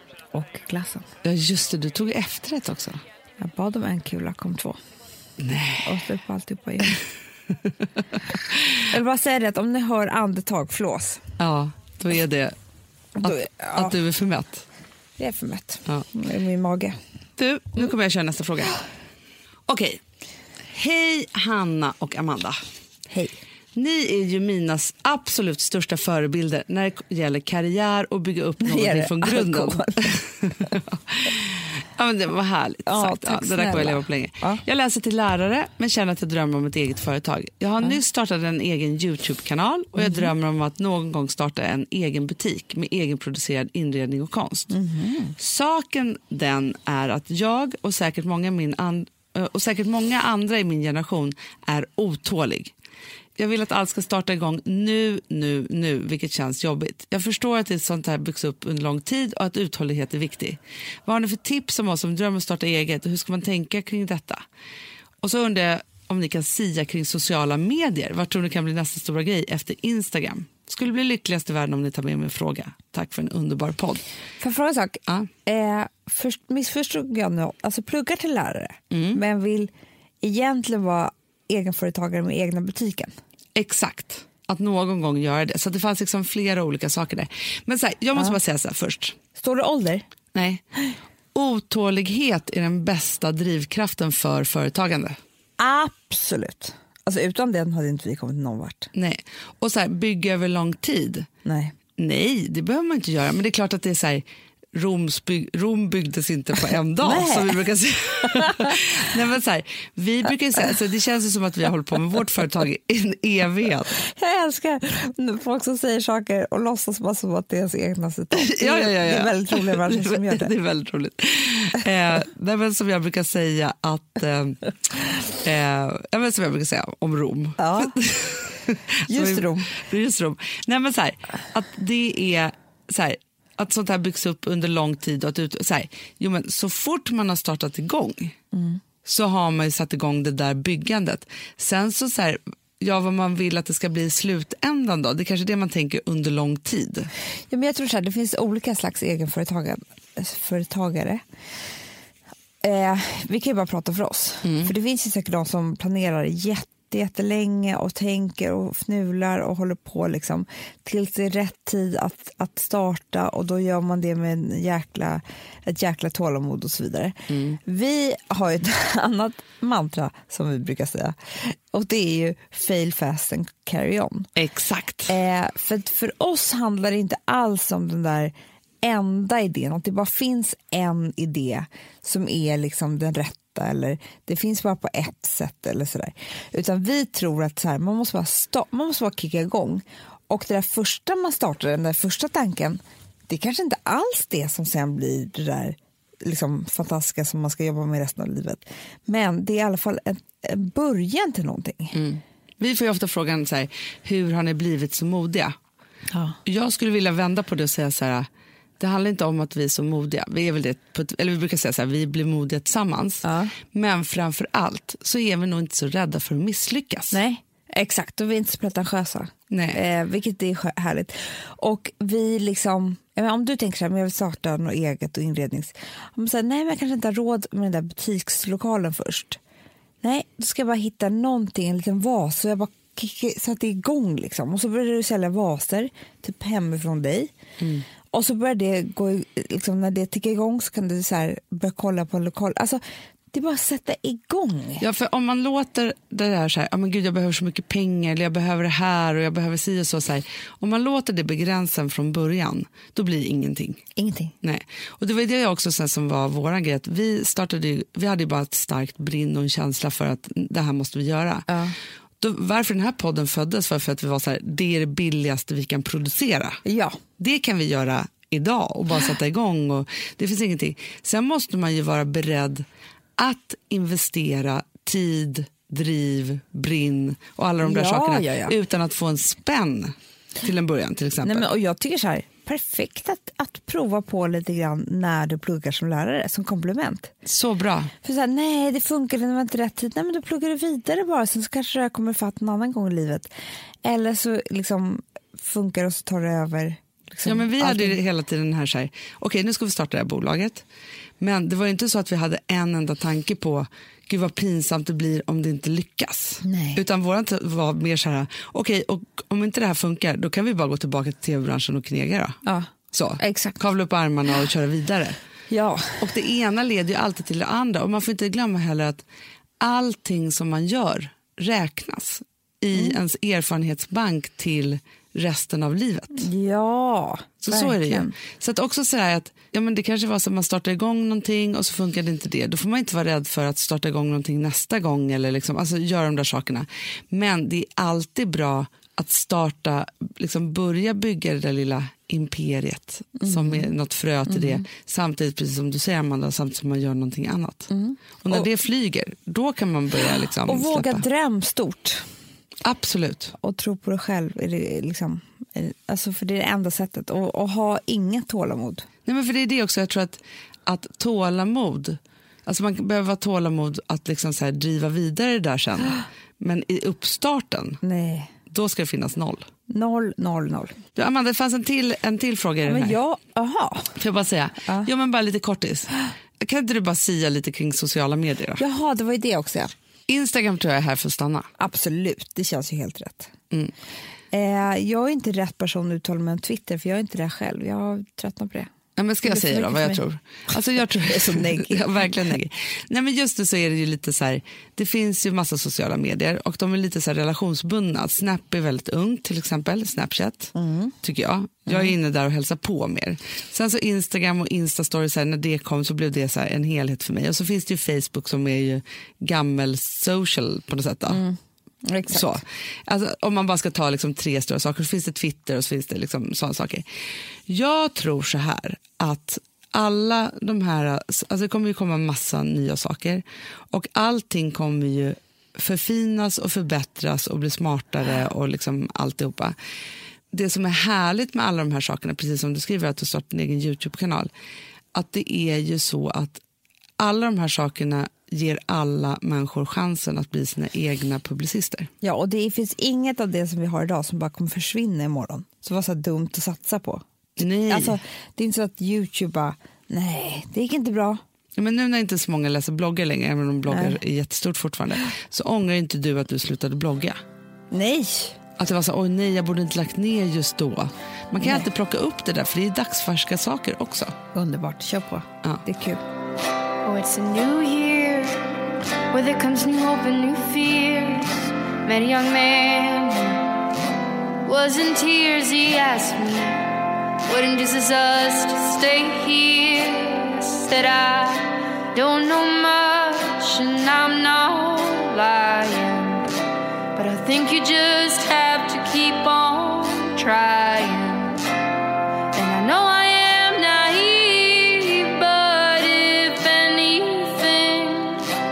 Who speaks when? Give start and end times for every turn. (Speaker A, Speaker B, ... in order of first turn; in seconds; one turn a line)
Speaker A: 0.3-1.1
Speaker B: 1.2-3.0
Speaker A: 3.4-4.8
Speaker B: 5.4-6.0
Speaker A: 5.8-7.0
Speaker B: 8.3-8.8
Speaker A: 8.9-11.2
Speaker B: 11.4-12.6
Speaker A: 13.2-14.0
Speaker B: 13.2-14.6
Speaker A: 15.2-17.0
Speaker B: 17.4-18.8
Speaker B: 19.7-20.0
Speaker B: 20.7-22.6
Speaker A: 23.1-23.4
Speaker B: 23.8-44.7
Speaker A: 28.6-30.1
Speaker A: 32.9-34.6
Speaker A: 40.0-40.3
Speaker A: 44.7-45.4
Speaker B: 45.4-52.7
Speaker B: 53.4-64.4
Speaker B: 65.2-74.0
Speaker A: 74.4-79.7
Speaker B: 78.9-79.2
Speaker A: 80.2-83.1
Speaker B: 83.5-89.2
Speaker A: 89.4-90.0
Speaker B: 90.3-90.6
Speaker B: 91.3-95.2
Speaker A: 95.6-98.9
Speaker B: 98.9-101.3
Speaker A: 101.5-101.7
Speaker B: 102.0-114.0
Speaker A: 107.0-107.6
Speaker A: 108.3-108.7
Speaker A: 114.1-120.5
Speaker B: 118.3-124.7
Speaker B: 125.3-138.4
Speaker A: 127.6-128.0
Speaker A: 129.1-129.7
Speaker A: 138.5-138.8
Speaker B: 139.1-147.1
Speaker A: 147.5-151.2
Speaker A: 152.6-174.3
Speaker B: 154.4-154.7
Speaker B: 167.3-167.6
Speaker B: 174.4-175.1
Speaker A: 175.1-202.0
Speaker B: 201.9-205.6
Speaker A: 206.1-206.4
Speaker B: 206.4-208.3
Speaker B: 208.8-217.2
Speaker A: 213.2-213.5
Speaker A: 217.1-229.4
Speaker B: 219.5-219.8
Speaker A: 230.0-237.3
Speaker B: 237.6-237.8
Speaker A: 238.1-242.8
Speaker A: 243.3-244.8
Speaker B: 244.8-253.8
Speaker A: 253.9-254.3
Speaker B: 254.4-261.5
Speaker A: 261.5-261.8
Speaker B: 262.2-266.6
Speaker A: 266.6-267.0
Speaker B: 267.2-272.6
Speaker B: 273.2-281.4
Speaker A: 277.6-278.6
Speaker A: 281.2-287.1
Speaker B: 287.2-287.9
Speaker A: 288.0-293.3
Speaker A: 293.8-298.0
Speaker B: 297.2-300.6
Speaker B: 301.2-312.4
Speaker A: 306.4-306.8
Speaker A: 312.4-313.6
Speaker B: 312.9-315.2
Speaker A: 315.5-316.1
Speaker B: 316.0-319.0
Speaker B: 319.6-326.3
Speaker A: 326.1-328.2
Speaker B: 327.4-351.0
Speaker A: 343.2-343.7
Speaker A: 344.3-344.6
Speaker A: 347.7-348.5
Speaker A: 350.4-352.1
Speaker B: 352.6-353.3
Speaker A: 353.4-358.9
Speaker B: 359.1-367.8
Speaker A: 367.8-368.3
Speaker B: 368.5-369.5
Speaker A: 369.7-370.8
Speaker B: 370.9-373.0
Speaker A: 372.6-374.0
Speaker B: 374.0-378.6
Speaker A: 378.6-379.7
Speaker B: 380.1-381.5
Speaker A: 381.6-383.3
Speaker A: 384.3-388.7
Speaker B: 389.0-411.2
Speaker A: 389.2-390.0
Speaker A: 390.9-392.2
Speaker A: 400.6-400.9
Speaker A: 401.7-401.9
Speaker A: 411.1-412.4
Speaker B: 412.1-416.9
Speaker B: 417.5-429.6
Speaker B: 430.3-434.3
Speaker B: 434.9-436.4
Speaker B: 437.0-441.9
Speaker A: 442.0-451.2
Speaker B: 447.4-448.0
Speaker B: 451.6-457.2
Speaker A: 453.7-454.0
Speaker A: 457.7-458.4
Speaker B: 458.6-464.2
Speaker A: 461.4-461.7
Speaker A: 464.3-466.0
Speaker C: 466.8-468.5
Speaker C: 469.1-473.5
Speaker C: 474.4-476.7
Speaker C: 477.3-486.3
Speaker C: 486.9-491.4
Speaker C: 492.3-498.3